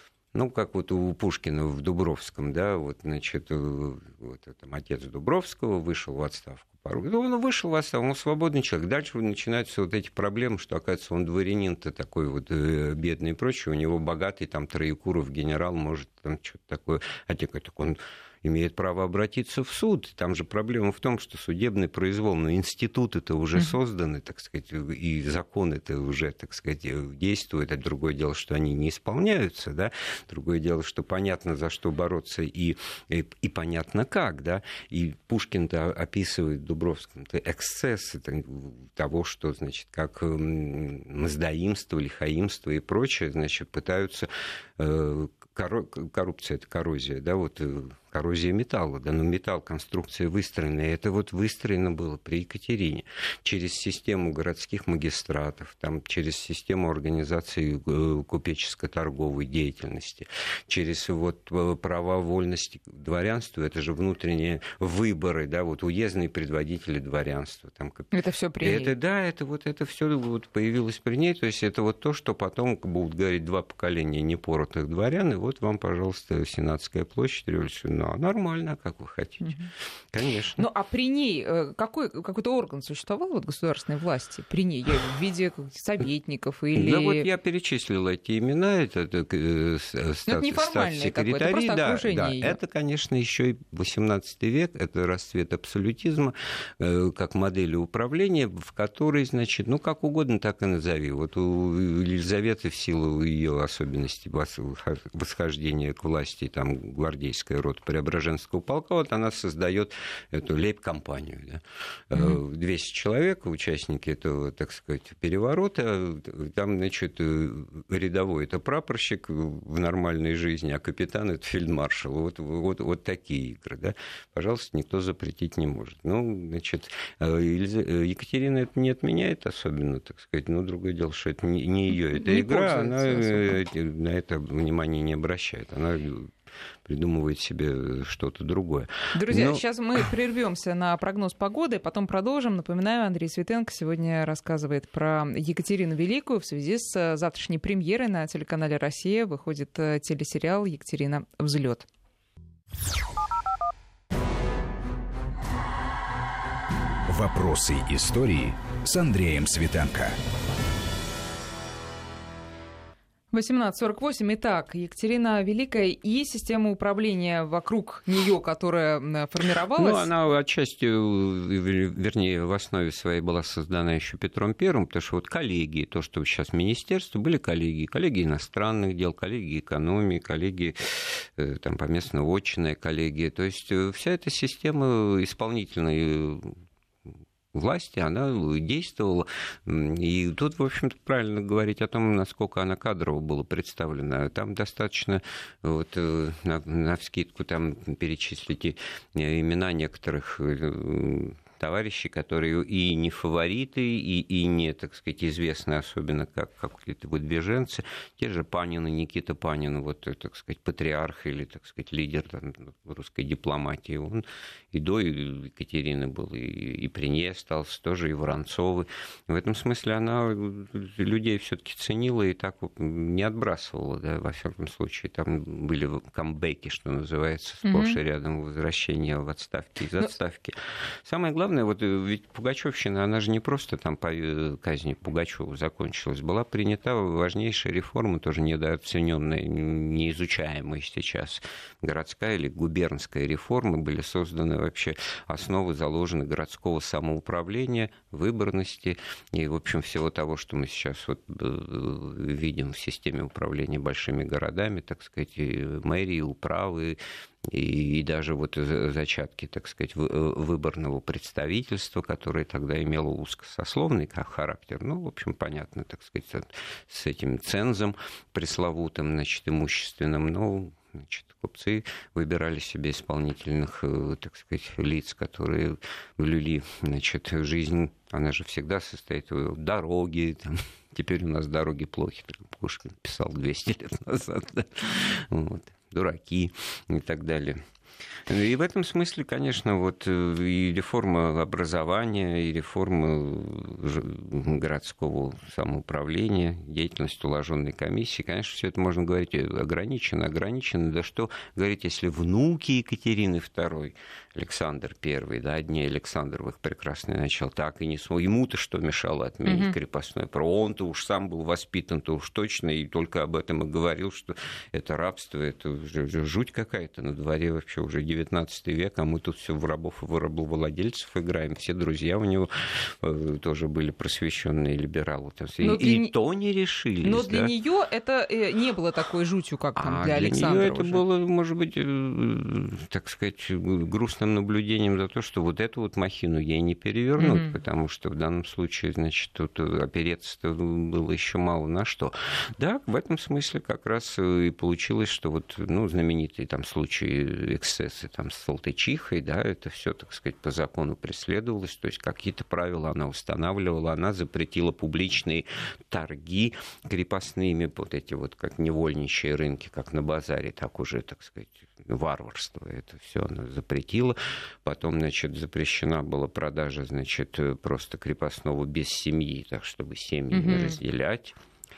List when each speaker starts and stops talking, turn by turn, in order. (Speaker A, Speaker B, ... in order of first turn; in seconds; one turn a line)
Speaker A: 0.3-79.6
Speaker B: 68.1-68.9
Speaker B: 79.4-79.7
Speaker A: 80.1-80.7
Speaker B: 80.6-87.3
Speaker A: 86.7-136.3
Speaker B: 90.3-92.6
Speaker B: 132.1-133.6
Speaker A: 136.9-139.6
Speaker B: 139.1-151.9
Speaker C: 157.1-160.2
Speaker B: 163.3-170.1
Speaker A: 169.8-186.6
Speaker A: 187.5-287.6
Speaker B: 227.6-228.0
Speaker A: 288.3-327.5
Speaker B: 309.5-309.8
Speaker B: 325.6-326.1
Speaker B: 327.0-331.0
Speaker A: 329.8-371.4
Speaker B: 337.2-337.5
Speaker B: 370.3-370.8